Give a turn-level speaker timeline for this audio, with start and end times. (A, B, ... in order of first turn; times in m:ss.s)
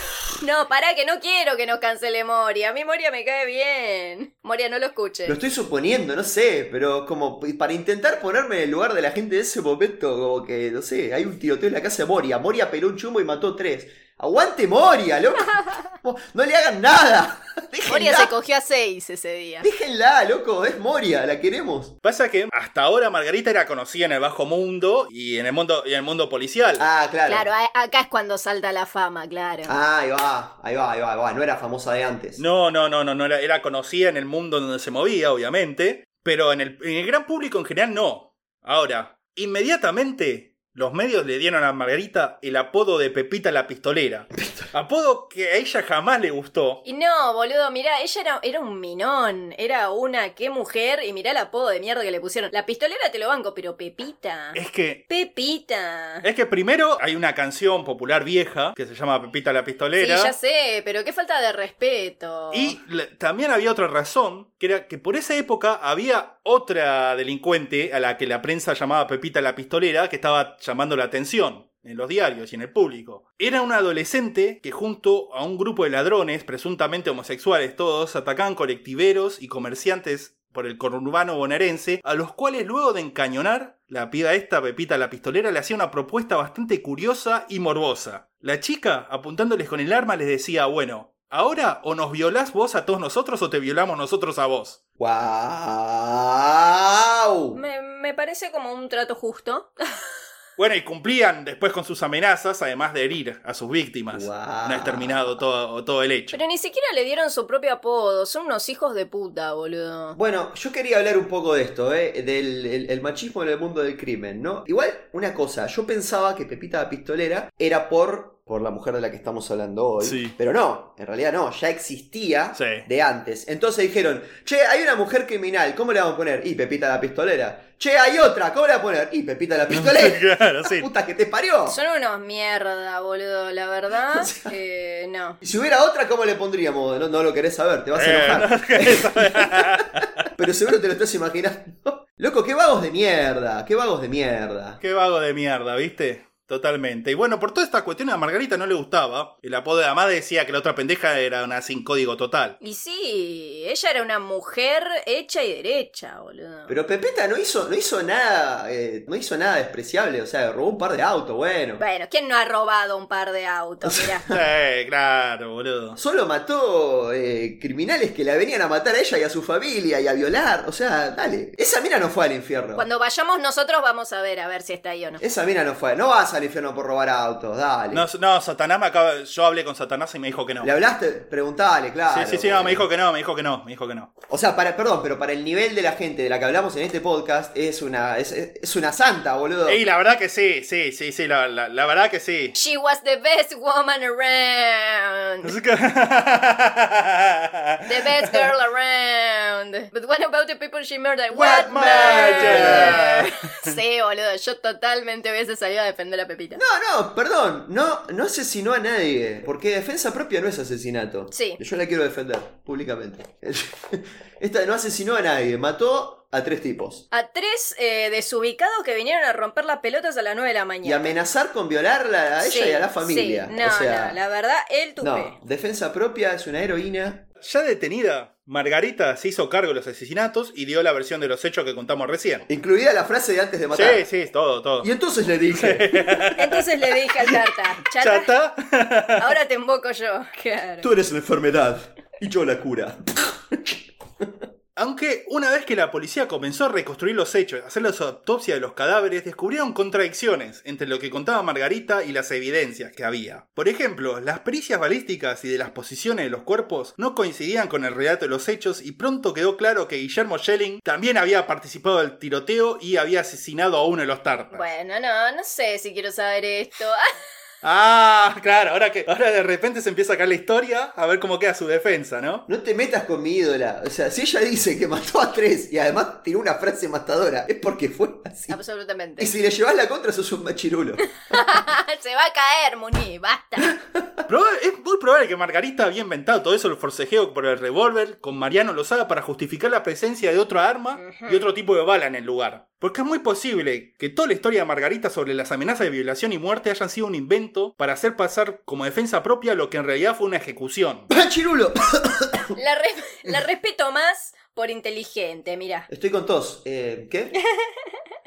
0:00.4-0:05.4 A
0:05.3-0:18.3 B
0:17.9-0:19.7 A
0:19.6-0:22.0 B
0:22.0-0:26.9 C
0:26.8-0:27.5 B
0:27.3-0:29.8 A
0:29.7-0:32.4 B
0:32.4-0:46.8 C
0:44.4-0:44.7 B
0:46.8-0:56.2 A
0:54.5-0:55.0 C
0:56.2-1:00.3 C
1:00.0-1:02.8 A
1:02.5-1:34.8 C
1:35.0-1:37.6 B
1:37.5-1:40.1 A
1:40.6-1:46.4 C
1:44.1-1:45.4 B
1:46.3-1:50.2 A
1:50.2-2:11.8 B
2:00.0-2:00.4 C
2:02.6-2:02.9 C
2:09.7-2:10.9 C
2:11.7-2:15.4 A
2:14.1-2:14.5 B
2:15.4-2:24.8 B
2:18.0-2:20.3 C
2:24.8-2:32.6 C
2:32.6-2:36.8 A
2:36.7-2:41.8 B
2:41.8-2:44.2 A
2:43.8-2:44.4 B
2:44.3-2:46.0 C
2:46.0-2:52.9 B
2:52.8-2:55.2 A
2:55.2-2:58.1 B
2:57.9-3:00.7 C
3:00.6-3:02.9 B
3:02.1-3:04.1 C
3:04.3-3:09.8 B
3:09.7-3:12.6 C
3:12.6-3:15.5 A
3:15.4-3:18.4 C
3:17.9-3:26.6 A
3:21.4-3:23.7 C
3:21.4-3:23.3 B
3:26.6-3:37.0 B
3:31.3-3:31.6 A
3:37.1-3:41.1 A
3:40.8-3:44.2 B
3:42.4-3:45.4 A
3:45.0-3:47.3 B
3:47.4-3:52.5 C
3:52.5-3:54.0 B
3:53.7-3:54.9 C
3:54.8-3:56.4 B
3:55.5-3:57.4 C
3:56.4-3:58.3 A
3:57.9-3:59.4 C
3:59.2-4:00.9 A
4:00.8-4:04.4 B
4:04.8-4:24.7 C
4:24.5-4:27.0 A
4:27.6-4:32.4 C
4:32.5-4:38.6 B
4:38.5-4:39.3 A
4:39.2-4:41.5 B
4:41.3-4:43.7 A
4:43.7-4:44.2 B
4:44.3-5:01.1 C
4:51.0-4:51.4 A
5:01.1-5:02.5 B
5:02.6-5:05.9 A
5:05.9-5:07.4 B